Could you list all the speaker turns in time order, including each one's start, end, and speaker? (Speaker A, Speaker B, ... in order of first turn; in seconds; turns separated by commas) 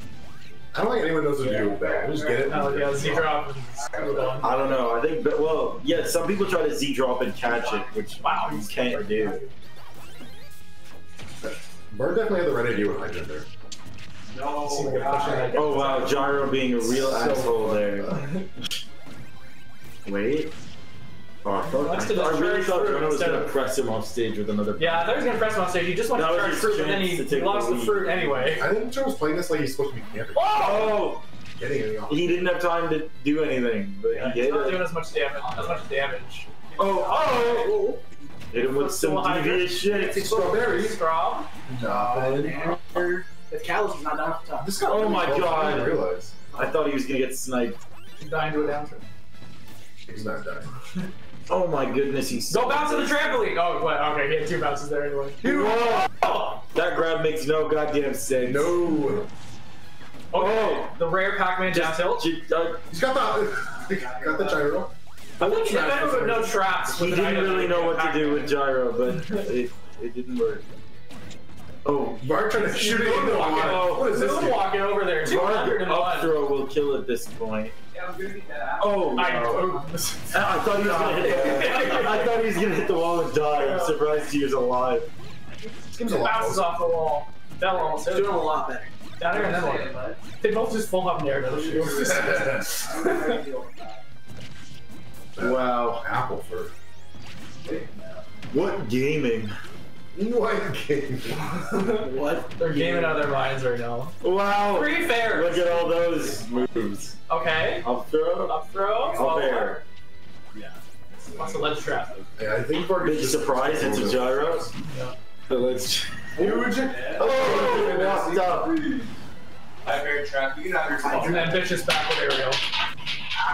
Speaker A: 0.7-3.4, Speaker B: 2.5-4.5, Speaker C: 4.4-9.4, Speaker B: 8.2-9.5, Speaker A: 11.4-13.5, Speaker B: 14.6-16.5, Speaker C: 15.5-18.2, Speaker A: 16.8-18.2, Speaker C: 20.1-20.5, Speaker C: 21.4-25.4, Speaker B: 21.7-23.5, Speaker B: 24.8-28.7, Speaker C: 26.1-28.5, Speaker A: 28.6-30.9, Speaker B: 30.4-30.9, Speaker C: 30.6-31.2, Speaker A: 31.6-32.3, Speaker C: 32.1-35.0, Speaker B: 34.1-37.6, Speaker C: 36.8-37.8, Speaker D: 37.2-38.0, Speaker C: 38.5-40.7, Speaker B: 38.7-41.5, Speaker D: 39.9-40.3, Speaker A: 40.4-41.0, Speaker A: 41.7-42.7, Speaker D: 41.8-44.8, Speaker A: 44.6-46.5, Speaker C: 44.8-46.0, Speaker C: 46.5-47.8, Speaker B: 48.2-49.0, Speaker A: 50.1-50.7, Speaker C: 51.5-53.3, Speaker B: 52.5-55.4, Speaker C: 55.4-58.7, Speaker A: 58.4-59.3, Speaker C: 60.3-61.0, Speaker B: 60.3-62.3, Speaker C: 61.6-62.9, Speaker A: 62.9-64.9, Speaker D: 63.9-64.3, Speaker B: 65.4-68.6, Speaker C: 65.5-66.2, Speaker A: 65.7-66.5, Speaker C: 66.8-70.7, Speaker C: 71.8-72.3, Speaker A: 72.2-74.7, Speaker B: 72.6-76.3, Speaker C: 73.2-74.2, Speaker C: 75.1-77.7, Speaker E: 77.9-78.9, Speaker C: 78.8-79.8, Speaker B: 79.1-80.5, Speaker C: 80.3-85.1, Speaker D: 81.1-81.8, Speaker B: 81.3-82.0, Speaker A: 85.7-86.9, Speaker B: 86.0-88.5, Speaker D: 87.8-88.9, Speaker B: 89.2-93.3, Speaker D: 92.9-93.7, Speaker A: 95.4-96.7, Speaker C: 95.4-96.1, Speaker C: 98.5-99.6, Speaker A: 100.1-101.6, Speaker B: 101.7-102.0, Speaker D: 101.9-102.6, Speaker B: 102.6-104.2, Speaker C: 103.0-103.3, Speaker C: 104.2-107.2, Speaker B: 104.7-106.0, Speaker B: 107.3-107.9, Speaker C: 107.8-109.8, Speaker B: 108.4-109.8, Speaker E: 110.5-112.2, Speaker B: 111.3-112.1, Speaker A: 112.4-114.7, Speaker C: 113.0-114.7, Speaker B: 114.8-115.2, Speaker C: 115.5-116.4, Speaker A: 116.4-118.7, Speaker E: 116.8-117.3, Speaker C: 117.2-118.8, Speaker E: 119.8-121.6, Speaker D: 121.1-121.5, Speaker B: 121.1-122.6